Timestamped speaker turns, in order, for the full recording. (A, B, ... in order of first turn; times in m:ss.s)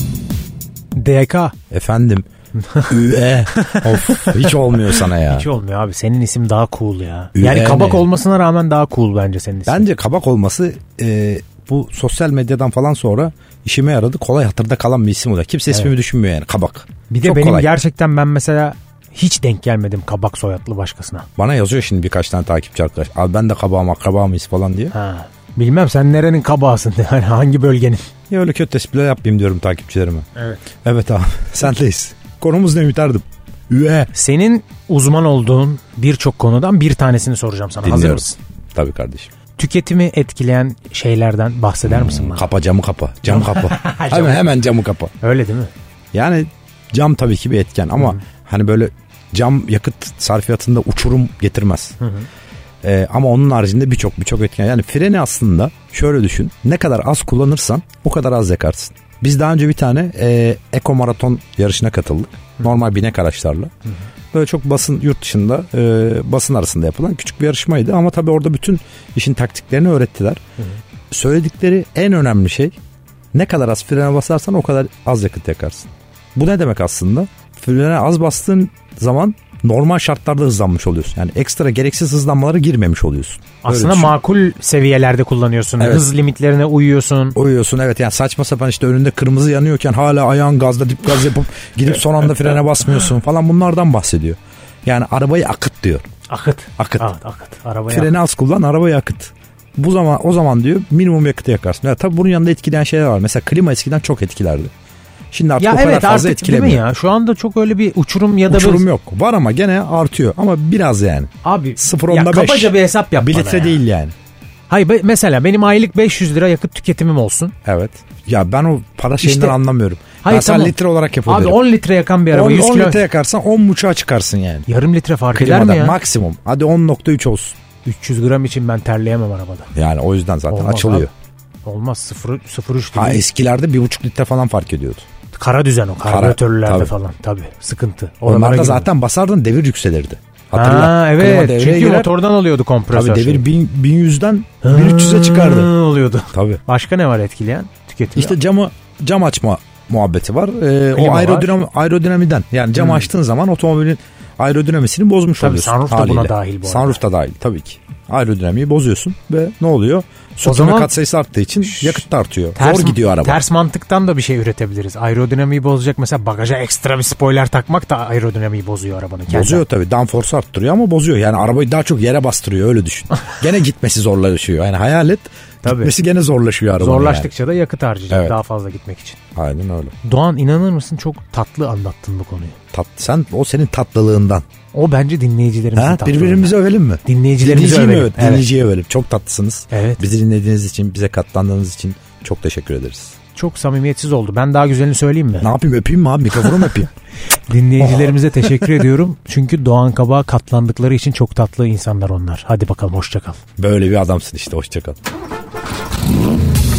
0:00.9-0:01.5 A
0:01.7-0:02.3 B
0:02.6-0:02.9 A
0:02.8-0:05.5 B
0:03.5-0:09.8 A
0:07.3-0:08.1 B
0:09.7-0:17.7 B
0:17.1-0:21.3 A
0:21.4-0:24.9 B
0:24.9-0:28.1 A
0:28.3-0:30.2 B
0:30.8-0:34.1 B
0:34.1-0:38.4 A
0:37.8-0:39.3 B
0:39.6-0:42.5 A
0:41.9-0:45.1 B
0:43.2-0:44.5 A
0:45.2-0:45.7 A
0:46.1-0:52.0 B
0:52.0-0:52.3 A
0:52.8-1:03.7 B
1:04.3-1:10.4 B
1:11.1-1:12.8 B
1:13.3-1:24.1 B
1:23.6-1:27.4 A
1:25.8-1:26.0 B
1:27.3-1:36.0 B
1:36.3-1:38.1 A
1:36.8-1:37.1 B
1:37.9-1:44.7 B
1:45.3-1:46.8 B
1:45.6-1:48.8 A
1:48.5-1:54.1 B
1:51.4-1:53.8 A
1:54.7-1:57.5 A
1:57.6-2:01.6 B
1:59.2-1:59.6 A
2:00.2-2:03.0 A
2:02.3-2:04.7 B
2:04.7-2:06.0 A
2:05.3-2:07.6 B
2:07.8-2:09.7 A
2:09.7-2:11.1 B
2:10.5-2:11.1 A
2:11.6-2:13.2 A
2:12.9-2:15.0 B
2:15.3-2:18.9 A
2:16.0-2:16.9 B
2:18.2-2:22.1 B
2:20.5-2:23.4 A
2:22.9-2:25.7 B
2:24.6-2:28.4 A
2:26.3-2:26.6 B
2:28.1-2:43.4 B
2:30.9-2:31.5 A
2:32.8-2:33.1 A
2:35.4-2:37.0 A
2:40.4-2:40.9 A
2:41.6-2:42.0 A
2:42.5-2:49.6 A
2:49.3-2:57.3 B
2:55.6-2:55.9 A
2:56.8-2:59.2 A
2:59.3-2:59.9 B
3:00.0-3:02.5 A
3:02.7-3:04.4 B
3:04.7-3:08.5 A
3:05.7-3:13.1 B
3:09.7-3:10.0 A
3:13.3-3:15.5 A
3:15.4-3:16.9 B
3:16.4-3:16.7 A
3:17.5-3:23.4 A
3:17.8-3:18.4 B
3:23.6-3:25.0 B